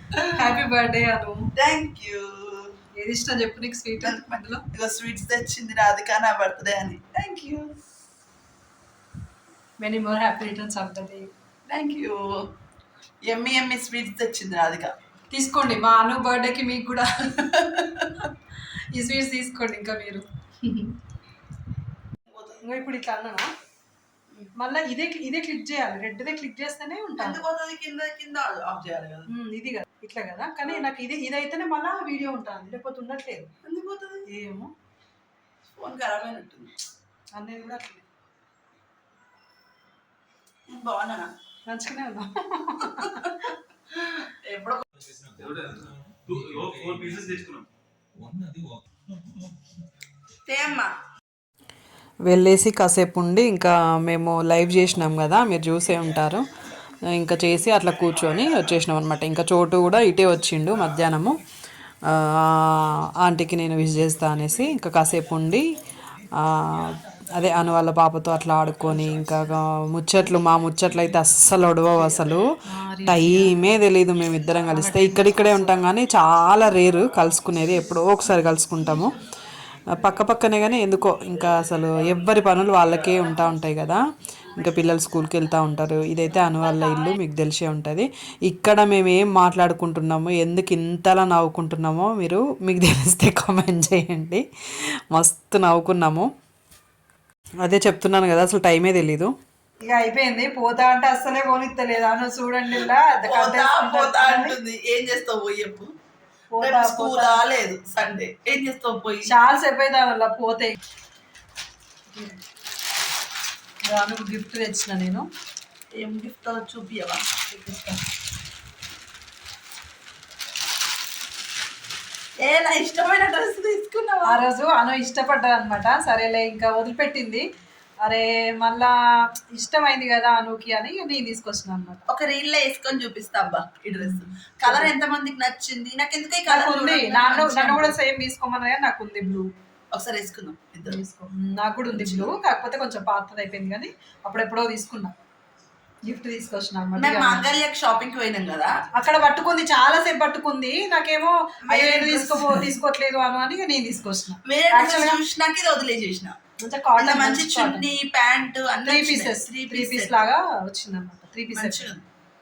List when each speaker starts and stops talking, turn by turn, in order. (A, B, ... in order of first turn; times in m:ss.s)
0:00.2-0:01.5 A
0:01.5-0:02.8 B
0:03.0-0:04.6 A
0:04.0-0:07.8 B
0:09.8-0:11.3 A
0:11.7-0:12.5 B
0:13.2-0:14.9 B
0:15.3-0:18.1 A
0:17.7-0:18.1 B
0:18.9-0:20.9 A
0:22.6-0:23.5 A
0:24.6-0:27.4 A
0:27.2-0:29.3 B
0:29.3-0:33.5 A
0:33.6-0:34.3 B
0:34.3-0:34.7 A
0:35.8-0:36.7 B
0:37.3-0:38.0 A
0:40.7-0:41.3 B
0:41.7-0:43.4 A
0:43.0-0:44.8 B
0:45.1-0:47.6 C
0:48.2-0:48.7 C
0:50.4-0:50.9 B
0:52.2-0:56.5 D
0:57.1-1:01.4 D
1:02.1-1:05.6 D
1:06.4-1:12.4 D
1:12.7-1:13.6 A
1:13.1-1:19.2 D
1:14.7-1:15.4 A
1:19.8-1:24.0 D
1:24.5-1:36.3 D
1:37.6-1:39.3 D
1:39.8-1:44.6 A
1:42.8-1:45.9 B
1:46.5-1:47.4 A
1:46.6-1:49.3 B
1:49.3-1:50.8 A
1:52.1-1:52.4 A
1:53.9-1:55.3 A
1:56.0-1:57.2 B
1:57.5-1:58.0 A
2:02.4-2:04.4 B
2:04.2-2:07.4 A
2:08.0-2:08.9 A
2:09.5-2:12.0 A
2:12.1-2:17.9 B
2:14.1-2:14.9 A
2:16.5-2:19.5 A
2:19.9-2:21.0 B
2:20.9-2:25.1 A
2:21.9-2:22.3 B
2:26.0-2:27.4 A
2:27.0-2:28.8 B
2:28.9-2:35.2 A
2:31.7-2:32.7 B
2:34.4-2:36.4 B
2:36.6-2:37.9 A
2:37.0-2:40.3 B
2:38.8-2:41.9 A
2:41.5-2:42.0 B